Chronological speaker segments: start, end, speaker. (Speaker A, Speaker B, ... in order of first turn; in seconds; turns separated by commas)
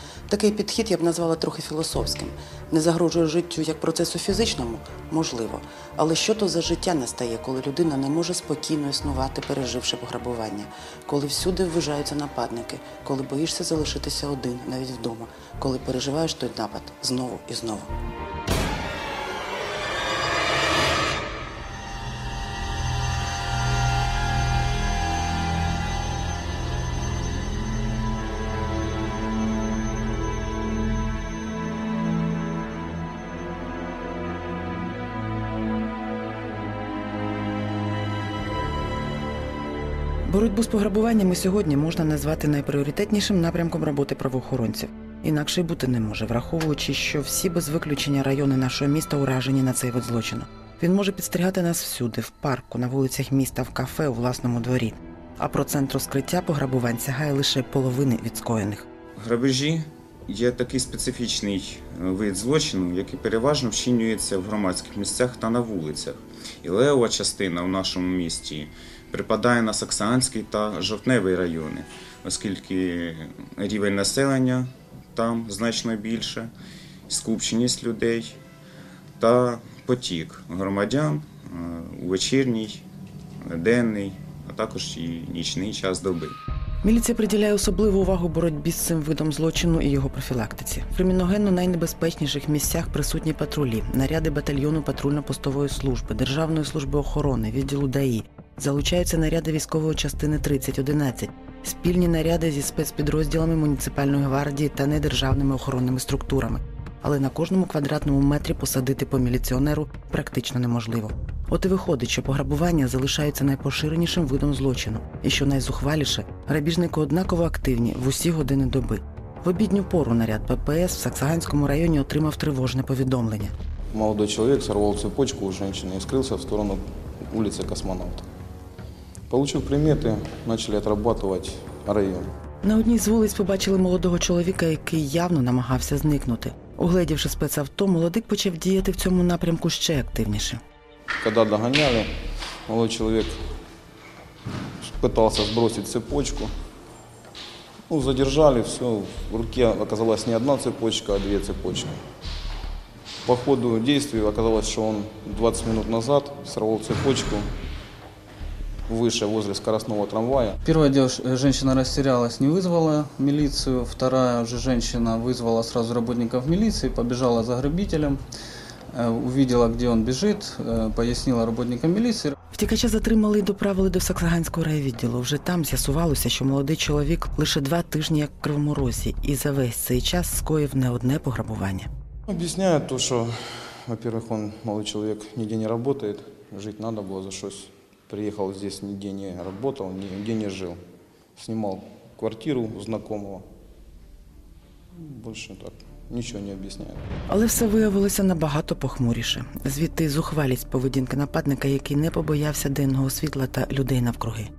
Speaker A: 0.3-17.9, Speaker A: 40.2-58.9, Speaker B: 59.2-76.5, Speaker B: 77.1-78.4, Speaker B: 79.2-82.8, Speaker B: 83.4-86.3, Speaker A: 86.8-123.5, Speaker C: 123.9-128.2, Speaker C: 129.3-132.3, Speaker A: 132.6-140.6, Speaker C: 141.2-142.1, Speaker C: 142.7-143.3, Speaker C: 144.8-146.5, Speaker C: 147.9-152.0, Speaker C: 153.2-157.5, Speaker C: 158.9-160.6, Speaker D: 160.6-168.2, Speaker D: 168.9-172.3, Speaker A: 172.5-181.9, Speaker C: 182.3-190.8, Speaker C: 191.3-193.4, Speaker C: 194.9-197.0, Speaker A: 197.3-204.5